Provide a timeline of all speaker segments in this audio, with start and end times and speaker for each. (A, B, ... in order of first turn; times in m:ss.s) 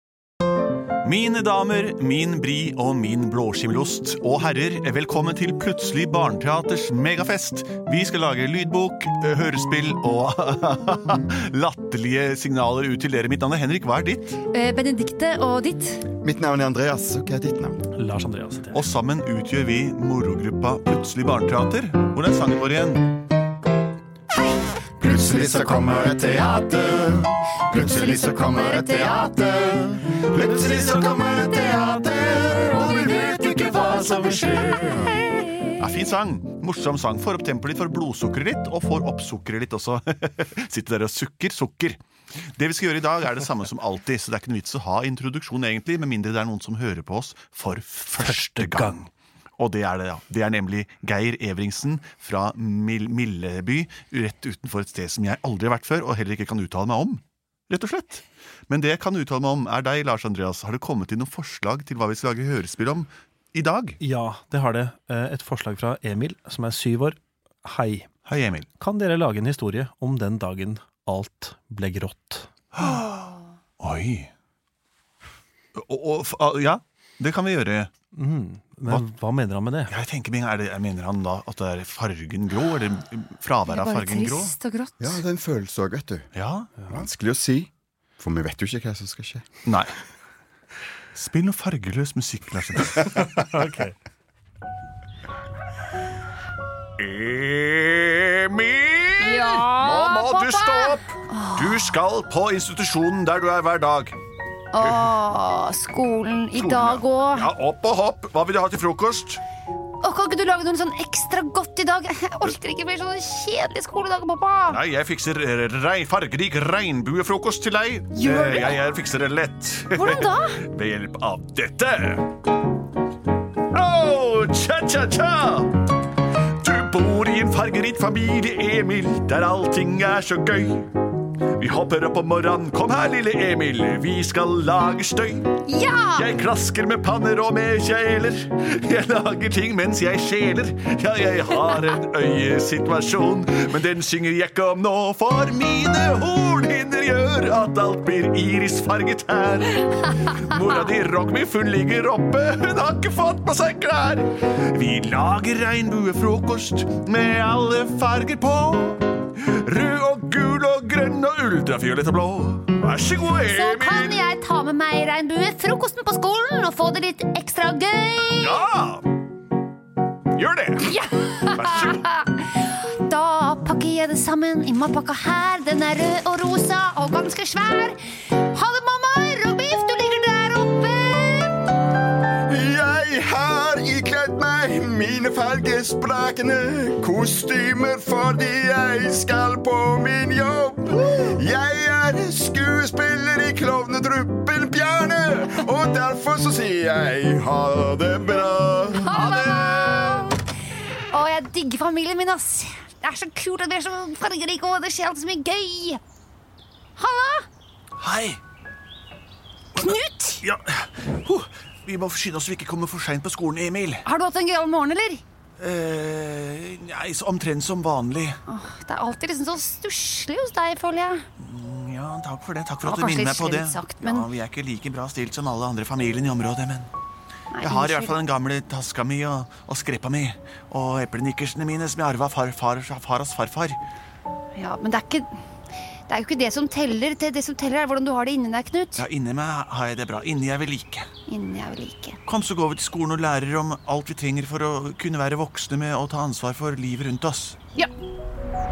0:01.0-0:14.4 A
0:14.5-0:16.0 B
0:16.2-0:17.8 C
0:17.9-0:18.8 D
0:18.7-0:23.2 A
0:25.0-0:35.2 C
0:27.8-0:29.9 B
0:35.7-0:42.0 A
0:42.5-1:04.0 A
1:04.0-1:08.1 D
1:08.2-1:08.7 A
1:08.8-1:12.5 D
1:12.8-1:13.2 A
1:13.8-1:14.3 A
1:15.7-1:17.9 A
1:18.1-1:19.9 D
1:19.9-1:24.5 A
1:23.7-1:25.2 B
1:25.0-1:26.3 C
1:26.3-1:26.7 A
1:26.9-1:29.4 C
1:29.6-1:29.9 A
1:31.1-1:33.5 A
1:33.5-1:33.9 D
1:37.0-1:44.2 A
1:39.2-1:41.9 B
1:44.7-1:47.5 B
1:44.8-1:45.0 A
1:46.5-1:49.4 A
1:50.0-1:54.8 B
1:54.7-2:02.3 A
1:58.2-1:58.8 B
1:59.9-2:00.6 B
2:03.7-2:05.8 A
2:06.6-2:10.9 A
2:11.6-2:15.6 A
2:15.6-2:16.3 B
2:16.2-2:44.3 A
2:43.4-2:48.6 B
2:48.4-2:49.0 A
2:50.3-2:51.0 A
2:50.8-3:01.7 B
2:51.5-2:52.0 A
3:02.5-3:19.2 C
3:19.0-3:20.3 A
3:19.0-3:20.3 B
3:21.1-3:26.0 B
3:27.0-3:27.5 B
3:28.0-3:28.4 A
3:29.7-3:30.4 B
3:29.7-3:34.0 A
3:34.0-3:35.2 B
3:35.6-3:38.4 A
3:38.4-3:41.2 B
3:41.4-3:46.9 A
3:42.8-3:44.3 B
3:47.5-3:48.2 B
3:47.6-3:53.8 A
3:54.5-3:55.3 B
3:56.1-3:59.0 B
3:59.0-4:01.1 A
4:01.3-4:02.2 B
4:02.3-4:07.6 A